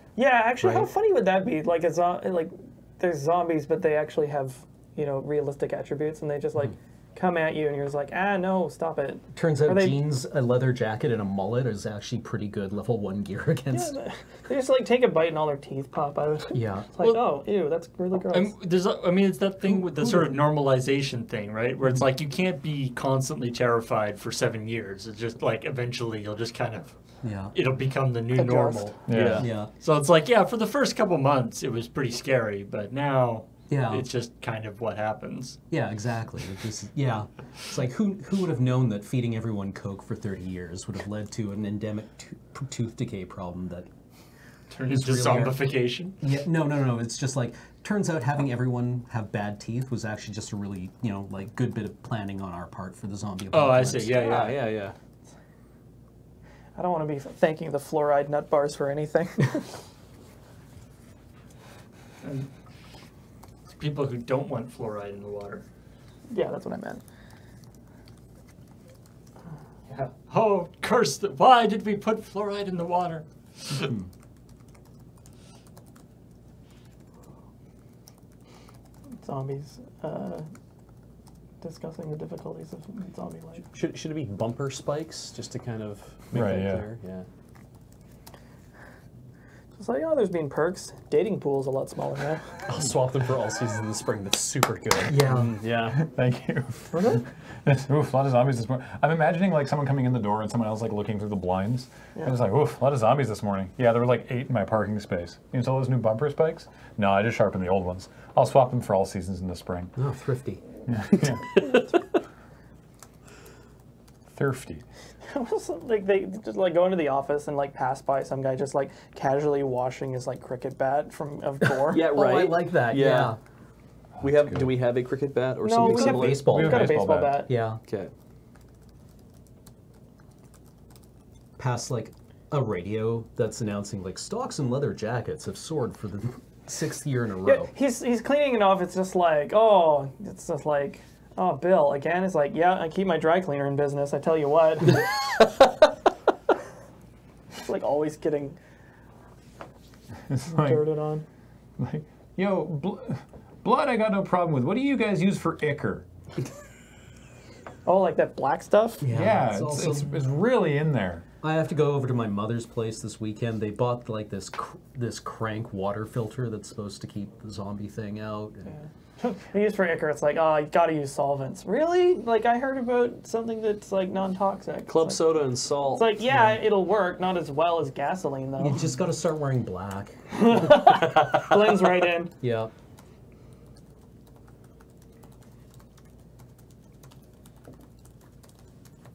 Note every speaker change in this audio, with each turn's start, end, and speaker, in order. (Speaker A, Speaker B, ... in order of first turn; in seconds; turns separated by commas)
Speaker A: 0.1-10.0, Speaker B: 0.6-0.9, Speaker B: 9.3-13.9, Speaker A: 13.7-18.5, Speaker B: 16.5-17.0, Speaker C: 18.3-35.6, Speaker B: 19.6-20.2, Speaker B: 27.2-27.5, Speaker A: 28.3-28.9, Speaker D: 29.1-29.4, Speaker E: 29.1-29.5, Speaker B: 29.4-29.7, Speaker B: 33.7-34.1, Speaker B: 35.7-43.9, Speaker C: 44.7-46.1, Speaker B: 44.9-54.6, Speaker C: 53.5-54.6, Speaker E: 54.2-54.9, Speaker A: 56.8-59.8, Speaker C: 62.2-62.5, Speaker C: 63.8-65.6, Speaker A: 66.3-67.0, Speaker C: 69.9-73.9, Speaker A: 79.2-80.5, Speaker A: 81.6-83.7, Speaker E: 83.7-87.3, Speaker D: 86.3-86.8, Speaker A: 89.8-92.5, Speaker E: 92.7-96.0, Speaker B: 95.1-95.5, Speaker D: 95.9-109.9, Speaker A: 96.9-97.2, Speaker B: 110.0-110.6, Speaker D: 110.8-111.6, Speaker D: 114.3-114.8, Speaker A: 115.3-122.1, Speaker E: 121.9-123.4, Speaker B: 121.9-123.4, Speaker D: 124.2-124.7, Speaker E: 124.2-126.5, Speaker A: 125.6-127.5, Speaker B: 125.8-127.8, Speaker D: 126.3-127.4, Speaker E: 127.9-128.1, Speaker B: 131.6-137.7, Speaker A: 137.4-145.1, Speaker A: 147.6-148.6, Speaker D: 150.3-150.9, Speaker A: 150.5-151.2, Speaker D: 151.8-156.1, Speaker A: 157.8-159.0, Speaker B: 159.0-160.2, Speaker D: 159.1-161.2, Speaker B: 161.4-168.7, Speaker A: 168.7-175.3, Speaker E: 174.9-176.1, Speaker A: 175.9-178.8, Speaker B: 176.3-176.6, Speaker B: 178.6-181.4, Speaker A: 180.3-182.3, Speaker B: 182.4-182.7